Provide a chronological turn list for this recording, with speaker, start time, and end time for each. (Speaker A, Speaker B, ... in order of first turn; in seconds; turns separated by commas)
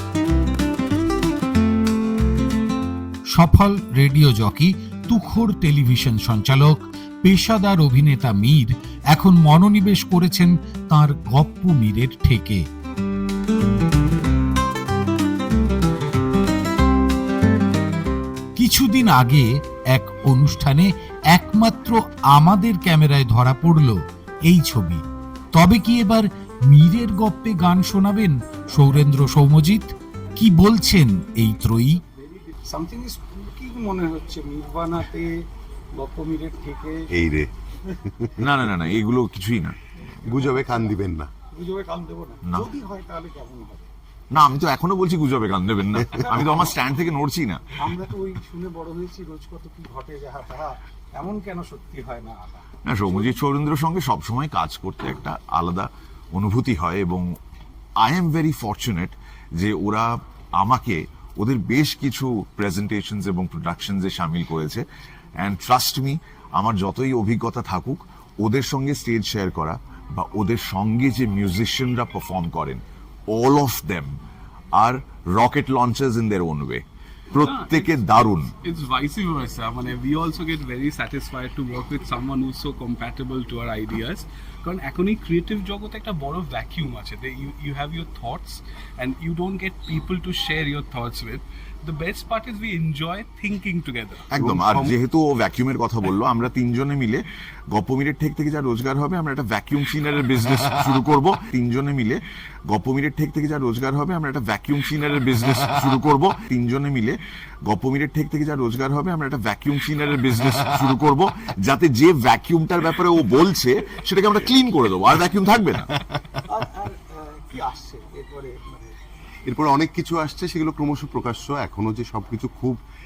Speaker A: 3.3-12.6, Speaker A: 18.6-25.0, Speaker A: 25.5-32.0, Speaker B: 32.6-35.3, Speaker B: 35.9-37.1, Speaker C: 37.1-37.5, Speaker C: 38.2-38.5, Speaker D: 38.4-39.8, Speaker B: 40.3-40.9, Speaker C: 40.3-41.3, Speaker B: 41.5-43.9, Speaker D: 42.4-42.7, Speaker D: 44.3-47.8, Speaker B: 46.1-46.9, Speaker B: 47.7-53.3, Speaker D: 52.8-57.4, Speaker D: 58.0-64.8, Speaker D: 65.4-74.2, Speaker D: 74.8-78.5, Speaker E: 77.4-78.0, Speaker E: 78.6-94.3, Speaker D: 94.3-116.0, Speaker C: 94.3-95.0, Speaker B: 116.5-118.9, Speaker C: 119.4-122.8